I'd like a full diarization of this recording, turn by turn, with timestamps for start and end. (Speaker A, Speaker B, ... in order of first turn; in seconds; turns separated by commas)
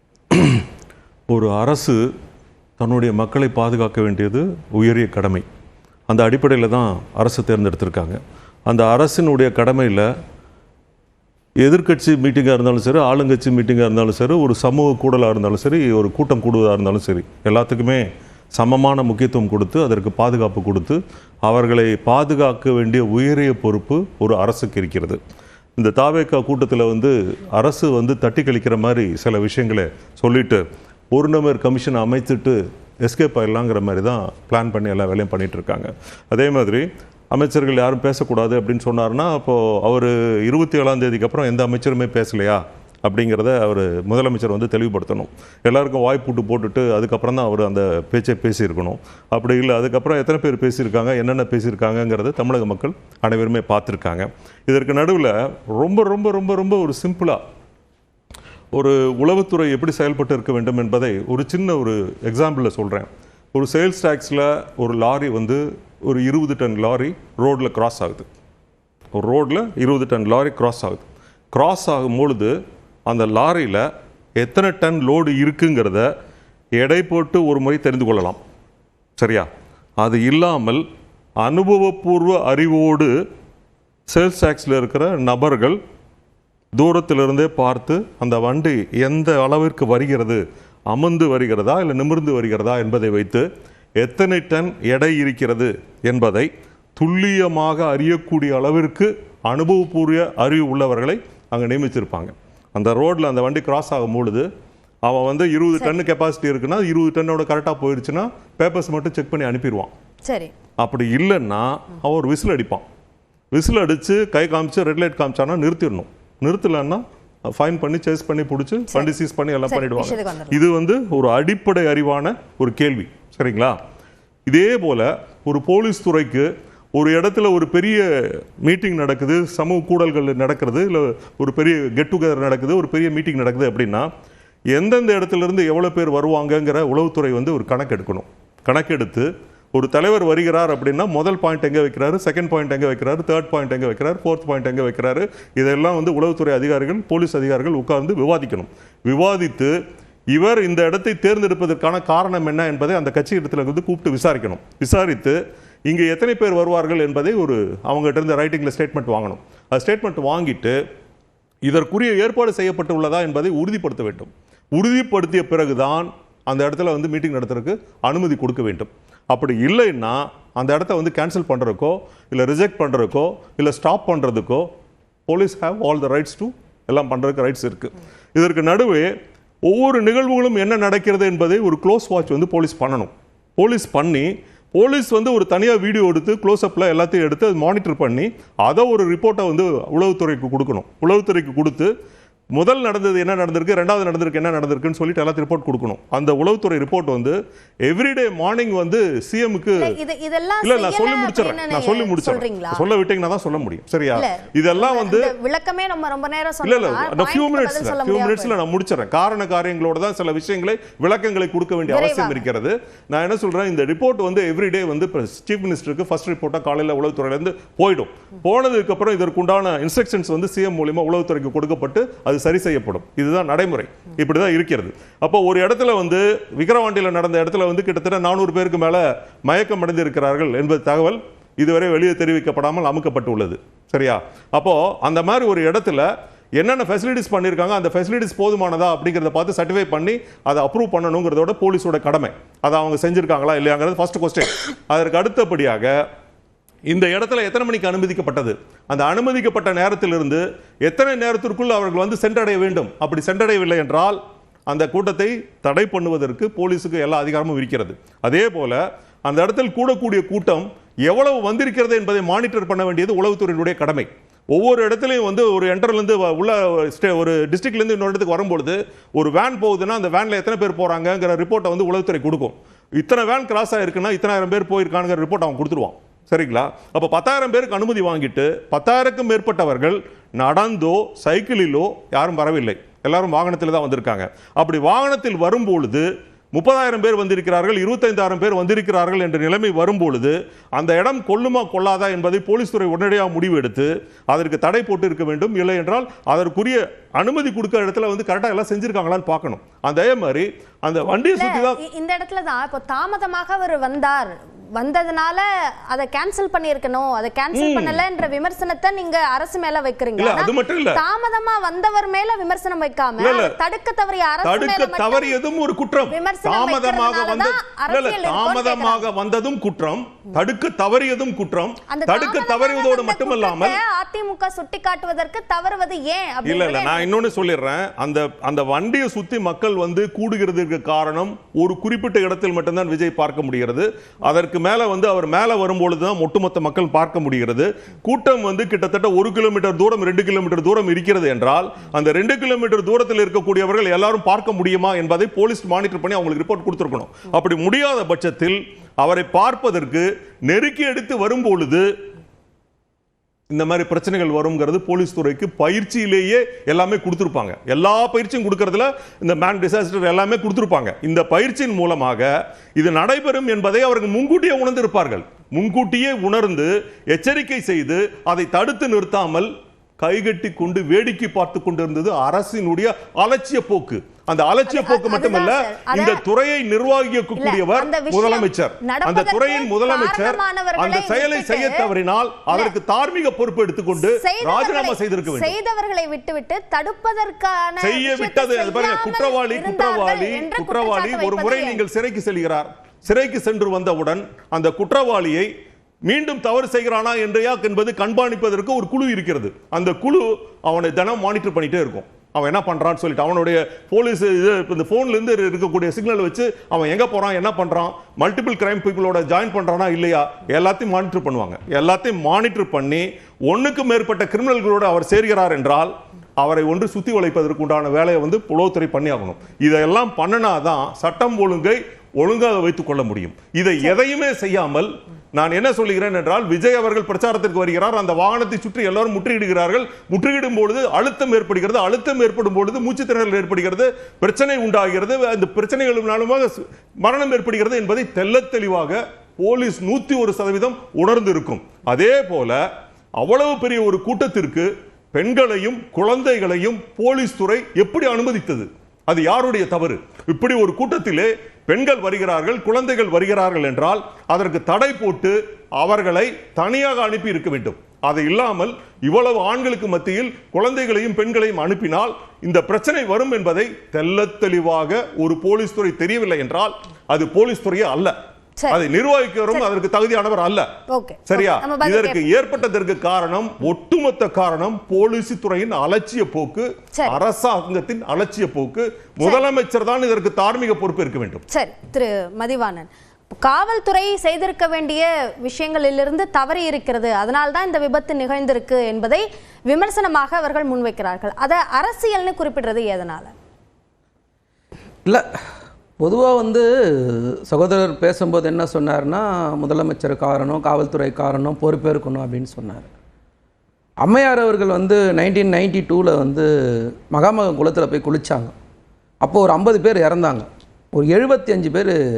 Speaker A: 0.3-0.6, Speaker A: 1.3-2.0, Speaker A: 2.8-5.5, Speaker A: 6.1-10.1, Speaker A: 11.6-25.2, Speaker A: 25.8-57.4, Speaker A: 58.7-68.3, Speaker A: 69.2-72.5, Speaker A: 73.1-73.9, Speaker A: 74.4-76.1, Speaker A: 76.8-78.4, Speaker A: 79.2-79.5, Speaker A: 80.0-80.8, Speaker A: 81.4-83.1, Speaker A: 84.1-85.8, Speaker A: 86.8-93.5, Speaker A: 94.0-104.5, Speaker A: 105.0-109.9, Speaker B: 110.2-110.5, Speaker A: 110.8-112.8, Speaker A: 113.5-123.8, Speaker B: 119.7-120.6, Speaker A: 124.5-134.1, Speaker A: 134.7-149.7, Speaker A: 150.3-160.8, Speaker A: 161.7-174.7, Speaker A: 175.3-179.1, Speaker A: 179.7-191.9, Speaker A: 192.6-200.0, Speaker B: 199.8-202.8, Speaker A: 200.6-205.3, Speaker B: 204.2-208.6, Speaker A: 206.6-245.9, Speaker B: 211.9-212.4, Speaker A: 246.9-301.8, Speaker B: 301.4-315.4, Speaker A: 307.5-308.0, Speaker A: 310.2-311.0, Speaker A: 313.2-313.6, Speaker A: 314.4-323.8, Speaker B: 316.1-319.1, Speaker B: 321.9-327.1, Speaker A: 326.4-351.9, Speaker A: 353.5-385.6, Speaker B: 374.7-376.2, Speaker B: 377.4-381.9, Speaker B: 384.0-391.8, Speaker A: 387.8-395.5, Speaker A: 396.1-442.6, Speaker A: 443.2-468.1, Speaker A: 468.7-470.7, Speaker B: 470.9-472.2, Speaker A: 471.3-481.4, Speaker B: 481.5-493.3, Speaker C: 496.0-502.9, Speaker C: 504.0-508.5, Speaker C: 509.2-512.0